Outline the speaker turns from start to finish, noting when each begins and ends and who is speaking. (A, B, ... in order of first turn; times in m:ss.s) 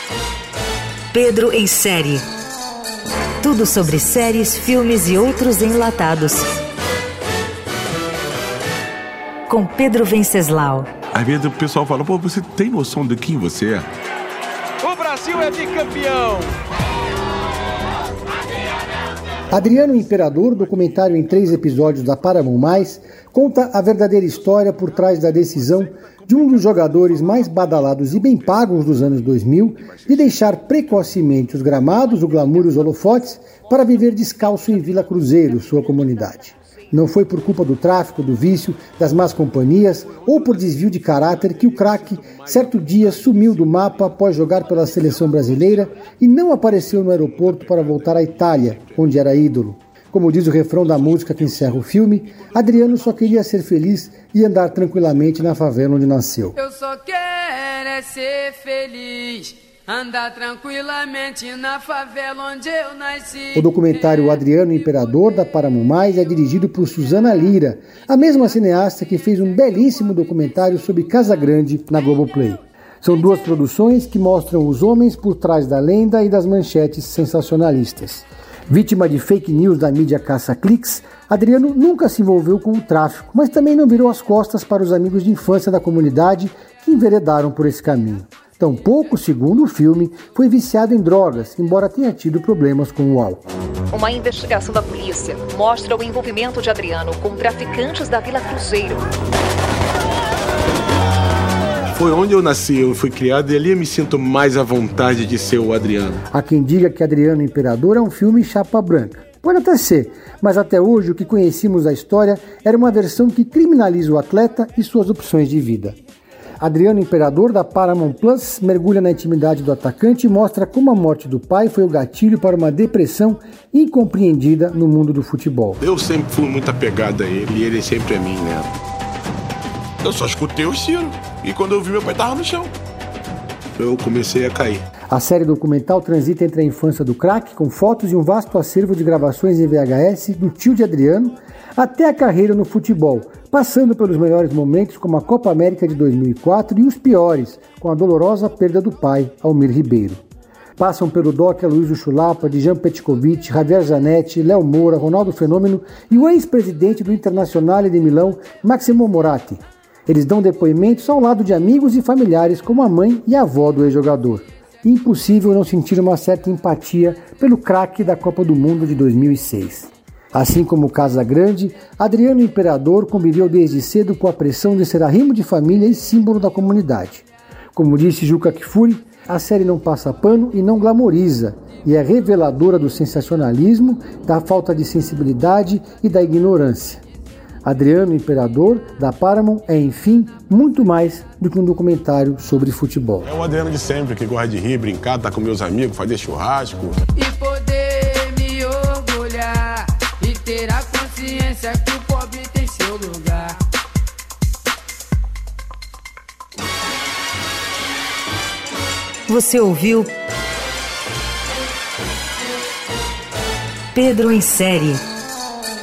0:01.1-0:02.2 A
0:03.4-0:06.6 A
0:09.5-0:10.9 A
0:11.1-0:13.9 B
0:14.8-0:16.5 B
0:19.5-0:56.6 C
0:56.6-1:04.1 D
1:03.5-1:33.4 C
1:33.9-1:39.1 E
1:41.9-1:46.2 B
1:46.3-1:56.0 C
1:56.6-2:05.8 C
2:05.8-2:08.7 B
2:10.0-2:12.7 B
2:13.8-2:14.9 B
2:15.1-2:30.2 C
2:30.8-3:07.0 C
3:07.6-3:13.3 C
3:13.3-3:17.0 B
3:17.2-3:23.6 D
3:29.3-3:30.1 A
3:33.9-3:35.0 A